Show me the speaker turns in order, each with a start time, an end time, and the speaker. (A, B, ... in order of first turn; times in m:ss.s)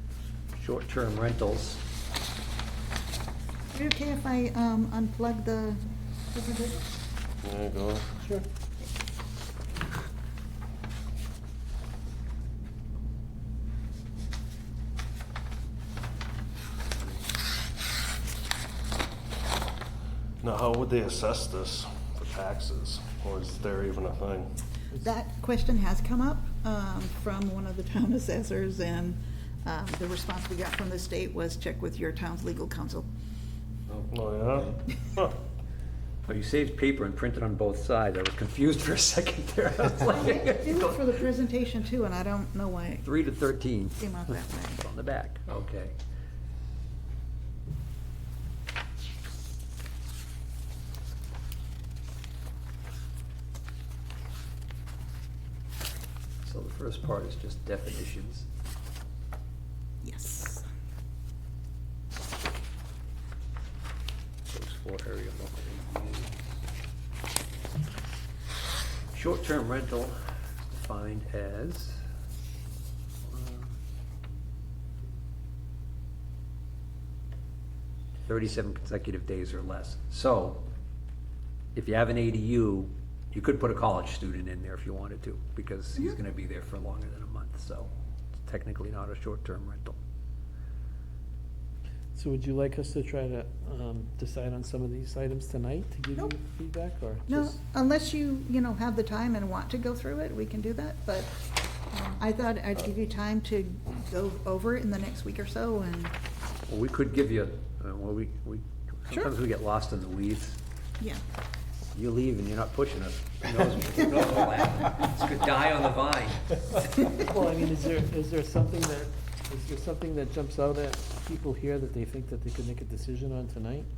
0:00.6-0:01.8 A
0:03.7-0:05.8 B
0:06.3-0:06.8 B
0:07.4-0:08.1 C
0:20.4-0:24.5 C
0:25.0-0:33.1 B
0:34.1-0:35.3 C
0:36.3-0:41.0 A
0:40.0-0:43.1 B
0:43.0-0:44.0 A
0:44.0-0:44.8 B
0:44.7-0:46.0 A
0:56.4-0:58.5 A
1:00.0-1:00.6 B
1:04.5-1:06.6 A
1:09.1-1:10.2 A
1:10.7-1:12.0 A
1:13.2-1:13.7 A
1:18.3-1:20.6 A
1:21.8-1:30.0 A
1:32.2-1:37.6 D
1:37.3-1:41.3 B
1:41.9-1:46.1 B
1:46.7-1:50.6 A
1:51.9-1:57.2 A
1:57.2-2:03.9 D